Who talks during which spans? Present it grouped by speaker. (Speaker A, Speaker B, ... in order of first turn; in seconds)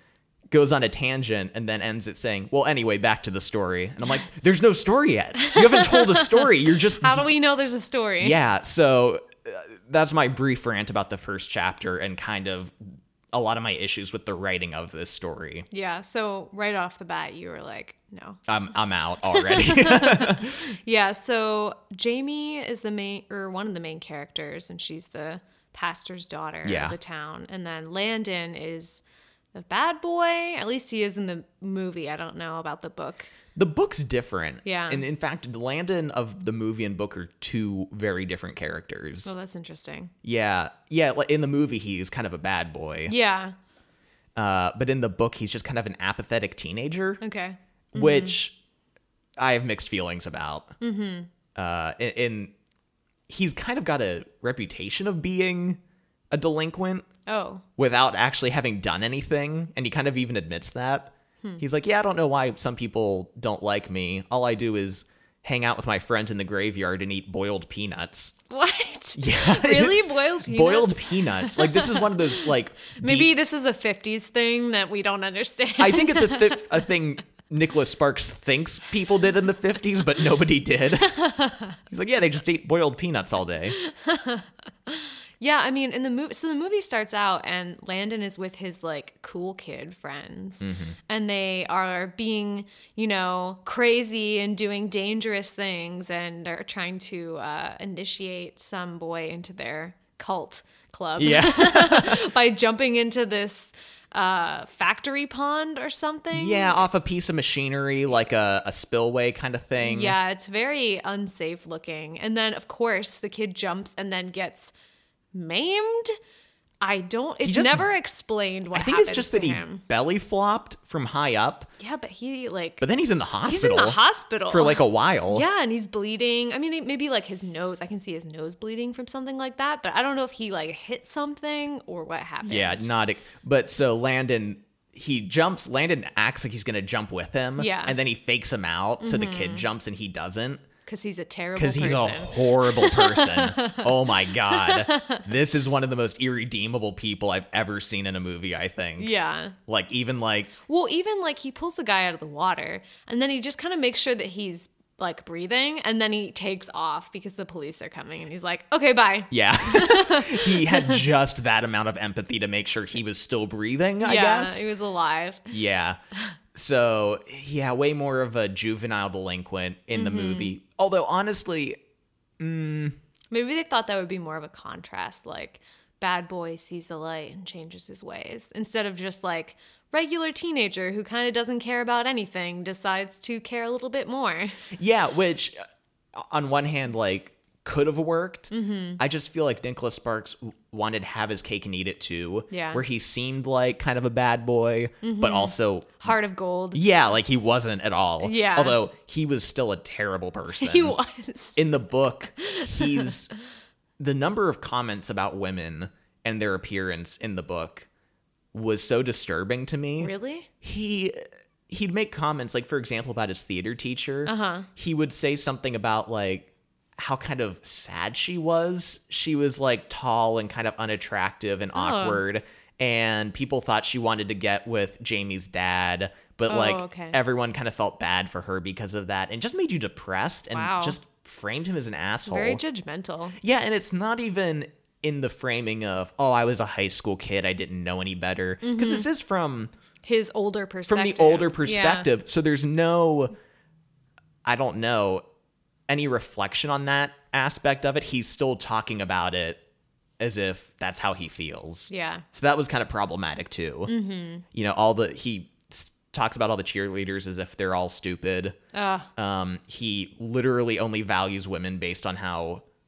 Speaker A: 0.5-7.3, 8.2-15.7, 18.5-20.7, 26.6-26.9, 33.5-39.3, 40.2-43.1, 44.4-47.2, 47.9-48.5, 49.4-50.8, 51.5-52.5, 53.3-55.8, 56.3-57.0, 57.8-68.3, 69.2-73.3, 75.8-81.2, 81.9-83.8, 90.6-91.0, 101.2-102.2, 106.3-110.2, 117.4-117.8, 118.7-121.7, 122.8-125.4, 132.4-140.6, 141.5-149.1, 149.7-150.5, 159.3-164.7, 165.5-166.0, 166.5-171.8, 172.4-172.9, 184.8-185.6, 186.2-196.1, 196.7-200.9, 201.6-203.3, 204.0-207.9, 208.5-232.6, 233.4-239.7, 240.9-243.3, 244.4-245.2, 245.9-249.6, 250.2-253.9, 254.5-258.6, 259.1-262.6
Speaker B: 5.5-8.4, 15.7-18.4, 19.3-33.3, 34.6-35.0, 39.2-40.1, 43.1-43.5, 47.2-48.3, 50.8-51.3, 57.2-57.6, 68.5-76.8, 81.1-81.8, 83.8-106.9, 109.8-114.7, 115.3-116.1, 116.8-119.8, 121.8-122.8, 123.4-132.9, 137.6-138.0, 139.0-139.6, 140.8-145.2, 149.0-149.6, 150.6-161.0, 164.0-165.5, 169.9-170.5, 173.3-184.6, 188.5-189.0, 192.5-192.8, 195.0-196.8, 198.2-198.8, 200.6-201.6, 202.4-203.1, 210.0-210.5, 214.2-214.7, 221.8-222.2, 226.5-227.2, 230.5-231.0, 232.2-233.4, 238.6-239.1, 240.0-242.1, 251.9-252.2, 253.9-254.4, 258.7-259.1